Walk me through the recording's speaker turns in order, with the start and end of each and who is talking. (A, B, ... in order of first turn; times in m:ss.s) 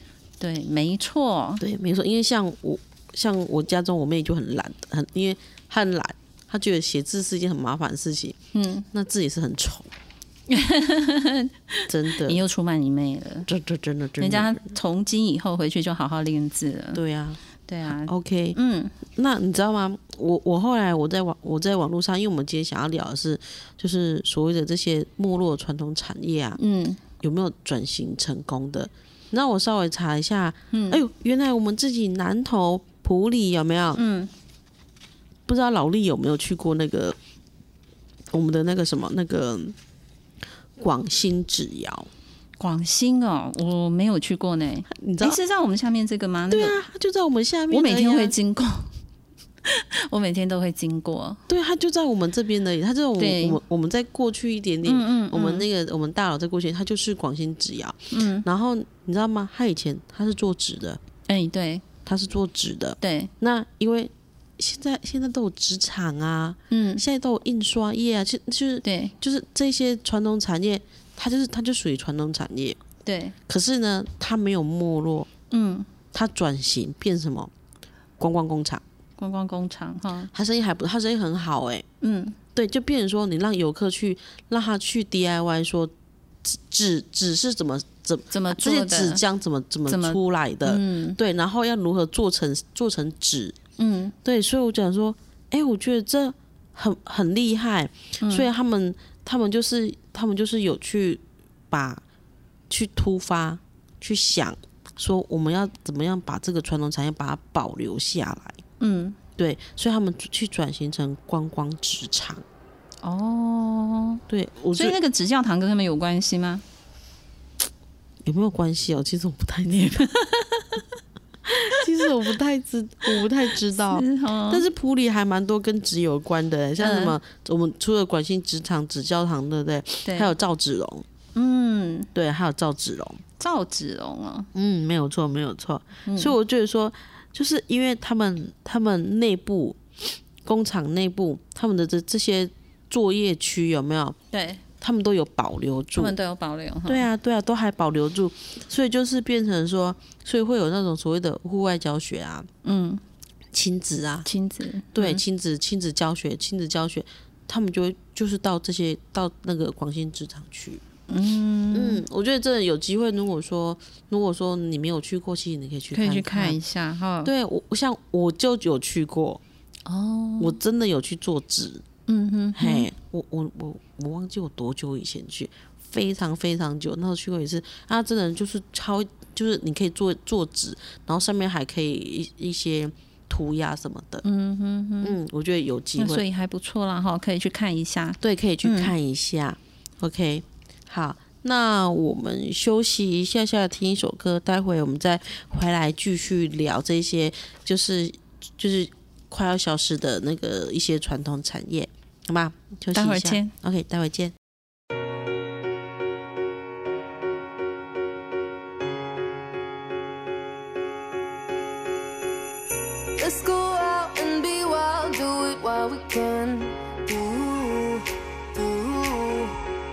0:00.4-0:01.6 A
0:01.6-0:08.4 B
0:08.5-0:08.9 A
0:08.9-0:09.9 B
0:10.5-0:13.5 A
0:11.9-0:12.4 B
0:13.5-0:14.6 B
0:14.2-0:17.0 A
0:16.9-0:18.6 B
0:17.7-0:19.0 A
0:19.1-0:26.6 B
0:26.6-0:27.0 A
0:27.2-0:34.0 B
0:30.7-0:31.0 A
0:34.0-0:34.3 A
0:35.5-0:37.2 B
0:38.3-0:39.8 B
0:40.8-0:42.1 B
0:42.6-0:46.8 A
0:44.9-0:45.4 B
0:46.5-0:48.4 B
0:47.7-0:48.9 A
0:49.7-0:51.4 A
0:51.5-1:01.0 B
0:53.2-0:53.6 A
0:54.8-0:55.7 A
0:58.1-0:58.5 A
1:01.3-1:01.8 A
1:02.1-1:12.8 B
1:03.0-1:03.3 A
1:06.7-1:07.0 A
1:08.8-1:09.1 A
1:13.0-1:13.4 A
1:13.5-1:15.3 B
1:15.5-1:15.9 A
1:16.1-1:17.5 B
1:18.2-1:18.8 B
1:19.2-1:20.3 A
1:20.3-1:21.9 B
1:22.0-1:22.4 A
1:22.6-1:25.9 B
1:26.4-1:33.6 B
1:28.3-1:29.2 A
1:29.9-1:31.2 A
1:33.8-1:34.1 A
1:34.2-1:42.0 B
1:38.2-1:38.5 A
1:42.7-1:48.6 B
1:48.8-1:49.2 A
1:49.4-1:52.4 B
1:53.0-1:54.2 A
1:54.3-1:55.0 B
1:54.7-1:56.6 A
1:58.2-2:00.0 B
1:59.7-2:00.8 A
2:01.5-2:11.1 B
2:03.9-2:04.7 A
2:06.8-2:07.2 A
2:10.0-2:10.3 A
2:11.4-2:12.1 A
2:12.2-2:13.2 B
2:13.4-2:14.5 A
2:14.5-2:19.8 B
2:16.1-2:16.4 A
2:20.4-2:24.2 B
2:24.3-2:24.6 A
2:24.8-2:26.2 B
2:26.0-2:27.1 A
2:26.9-2:32.5 B
2:32.6-2:33.0 A
2:33.5-2:34.3 B
2:34.2-2:35.2 A
2:34.9-2:40.8 B
2:41.1-2:42.0 A
2:41.7-2:46.6 B
2:45.9-2:47.3 A
2:47.2-2:49.4 B
2:49.9-2:50.6 A
2:50.4-2:51.8 B
2:52.1-2:52.9 A
2:52.6-3:04.2 B
3:04.2-3:05.2 A
3:05.0-3:06.2 B
3:06.0-3:08.9 A
3:08.2-3:24.4 B
3:22.9-3:23.5 A
3:33.2-3:39.6 C